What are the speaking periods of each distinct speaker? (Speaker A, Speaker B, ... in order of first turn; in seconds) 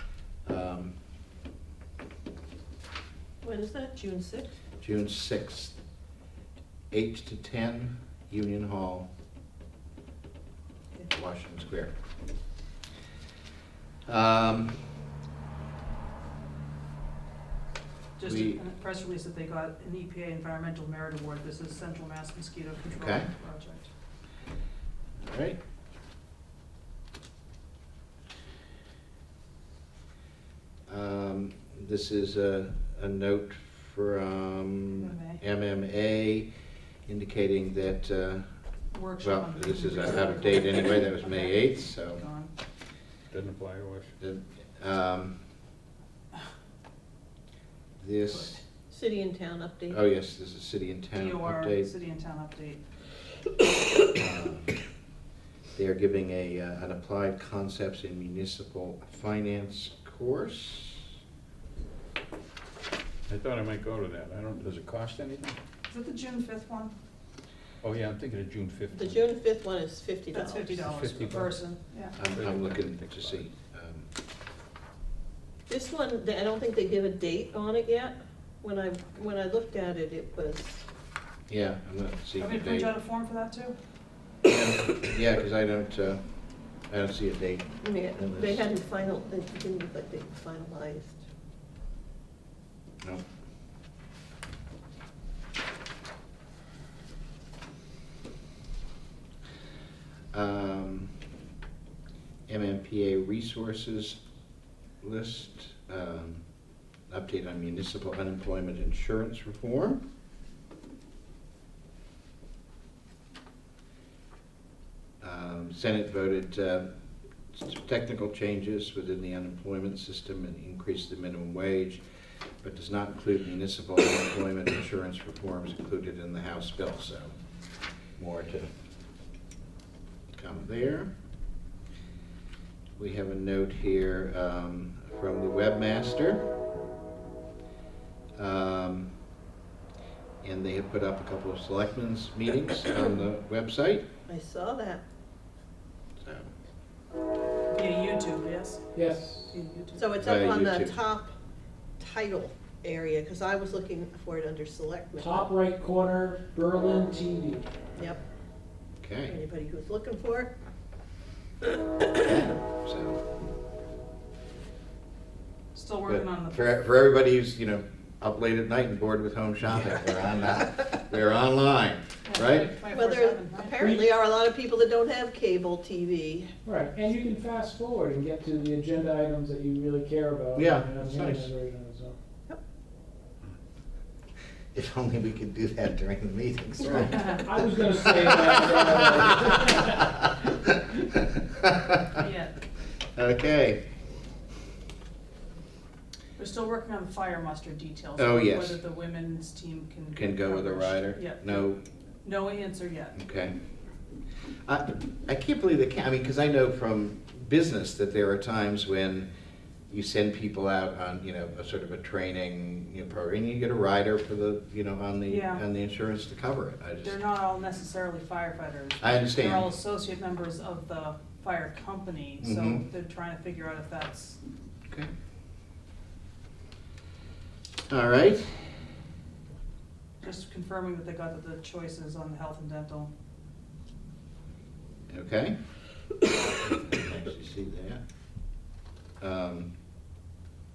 Speaker A: 0.5-0.9, 4.8-5.8, 6.9-9.1, 11.1-11.9, 14.1-14.8, 18.2-18.6, 22.9-23.3, 25.2-25.6, 30.9-36.5, 37.1-38.5, 39.2-42.2, 44.2-45.4, 48.0-48.6, 49.9-51.9, 54.1-54.8, 55.8-61.1, 72.2-74.1, 81.5-82.9, 84.5-86.2, 86.9-88.7, 100.3-101.1, 102.5-104.2, 105.0-106.5, 107.1-110.0, 115.2-116.9, 117.5-122.0, 122.6-127.3, 128.2-128.7, 130.3-131.1, 133.0-136.5, 138.4-139.1, 140.4-144.1, 146.2-146.5, 150.2-150.9, 159.0-159.4, 162.1-163.2, 166.1-172.7, 180.6-181.5, 184.7-187.4, 188.1-192.1, 193.2-193.8, 198.2-198.8, 200.1-201.8, 203.2-203.6, 204.7-209.3, 209.9-217.2, 219.0-219.7, 222.4-222.8, 227.9-228.7, 235.1-235.6, 236.6-238.0, 239.2-239.7
Speaker B: 3.4-4.5, 48.9-50.0, 68.9-70.8, 75.7-80.8, 87.8-91.2, 144.3-145.0, 149.9-151.3, 152.0-155.5, 158.0-158.2, 159.3-160.5, 172.9-176.5
Speaker C: 18.2-23.9, 35.0-35.4, 38.9-42.5, 51.1-52.8, 65.9-66.9, 70.3-72.2, 82.4-83.8, 147.7-150.1, 165.7-166.7, 172.2-173.9, 187.0-187.4, 192.1-192.6, 196.4-201.7, 202.2-203.2, 215.3-215.6, 217.0-224.4, 230.2-233.1
Speaker D: 43.3-44.1, 63.3-65.6, 67.8-69.2, 70.8-71.5, 72.2-73.4
Speaker E: 148.9-149.5, 155.2-157.7, 173.8-174.0, 176.7-182.2, 187.3-190.1